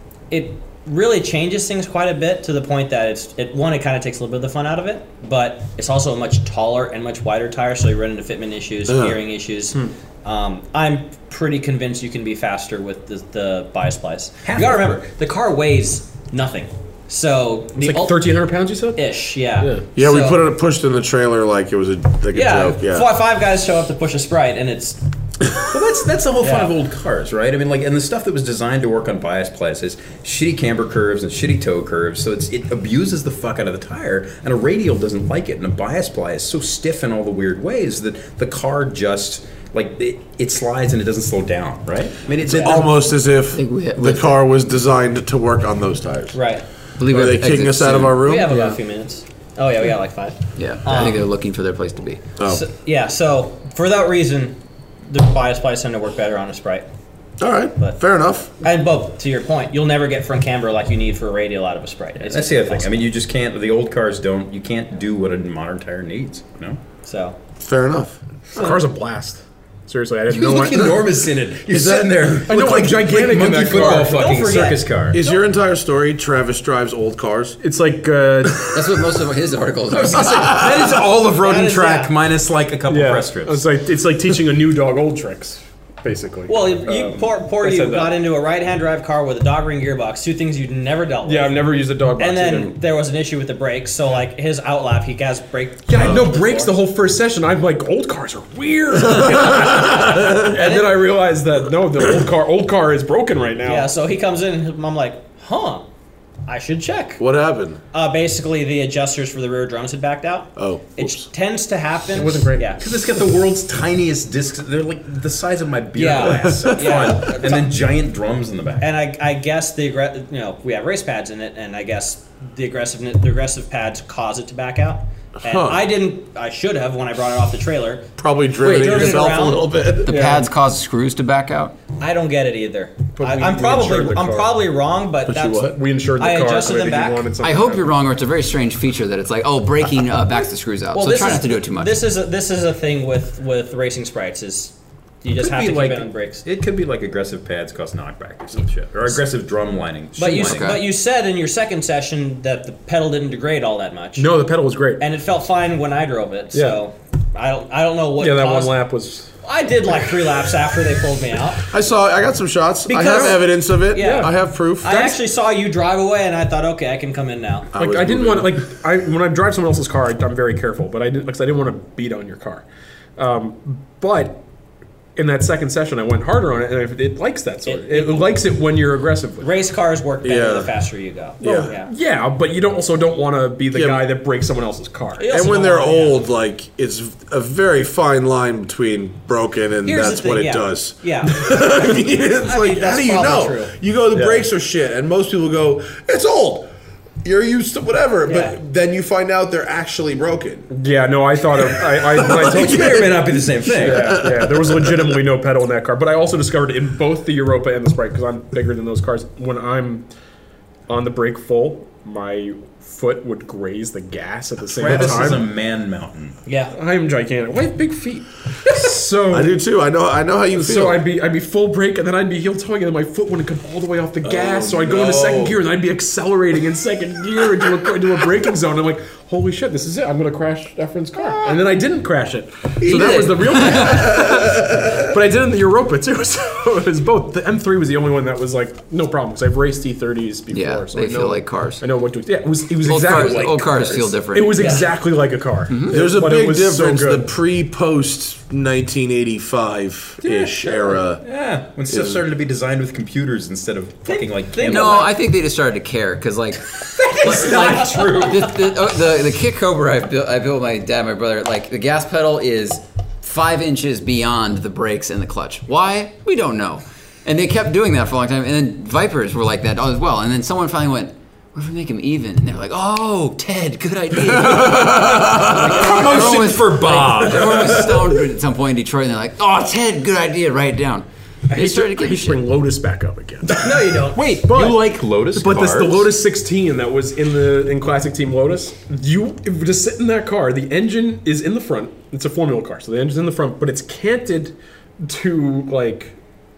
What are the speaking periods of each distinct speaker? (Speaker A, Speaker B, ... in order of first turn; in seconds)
Speaker A: 0.3-18.2, 19.0-20.4, 22.3-25.0, 26.4-26.7, 46.3-46.7, 48.2-51.3, 52.4-56.9, 58.6-63.1, 67.0-67.4, 73.7-75.4, 81.3-82.2, 86.5-96.7, 100.4-101.1, 103.6-105.9, 106.5-107.2, 107.9-112.8, 116.0-117.7, 118.8-130.0, 132.0-137.3, 140.9-146.4, 150.2-154.3, 155.0-158.8, 159.4-161.6, 162.9-167.7, 177.7-178.3, 179.4-181.9, 185.2-186.3, 189.8-193.8, 198.2-198.6, 216.5-216.7, 244.6-244.9, 254.1-255.2, 257.0-258.5, 283.6-284.4
Speaker B: 8.9-9.2, 20.0-23.1, 42.6-46.4, 47.0-48.5, 52.4-52.6, 57.4-58.5, 67.6-68.2, 71.7-72.1, 75.1-77.6, 96.0-96.2, 107.2-107.8, 110.6-111.3, 116.2-116.8, 125.4-125.9, 128.2-130.2, 135.3-135.8, 161.7-165.1, 167.7-168.6, 180.2-180.7, 181.4-181.7, 183.7-184.1, 185.4-196.7, 197.2-200.7, 203.8-205.0, 219.3-221.0, 224.2-225.6, 231.2-231.6, 232.8-235.1, 245.9-251.2, 251.9-252.2, 274.4-276.5, 277.5-277.8
Speaker C: 14.4-14.8, 25.6-43.1, 62.2-66.8, 70.3-75.2, 79.9-83.7, 112.8-118.9, 146.4-150.8, 202.1-204.3, 214.7-216.4, 243.1-243.9, 251.2-255.1, 257.2-258.5, 274.9-278.0, 283.5-286.1
Speaker D: 17.8-19.9, 68.5-71.2, 72.5-74.7, 77.6-79.0, 82.9-88.2, 91.2-92.8, 95.9-103.9, 112.1-112.7, 130.1-130.5, 133.2-134.6, 135.7-137.9, 145.3-146.1, 154.2-155.1, 156.5-156.8, 158.2-159.3, 163.1-163.4, 163.9-164.3, 164.9-165.2, 167.7-172.7, 173.2-174.4, 175.2-179.5, 181.4-186.1, 194.1-194.5, 200.7-210.1, 210.9-215.5, 216.7-219.5, 220.5-247.3, 281.5-283.7, 284.4-296.2
Speaker E: 43.5-44.4, 47.0-48.7, 50.6-52.3, 78.7-80.8, 130.0-131.7, 137.4-142.0, 150.2-150.9, 232.8-234.2, 240.5-241.8, 242.8-244.9, 245.7-246.0, 254.7-282.5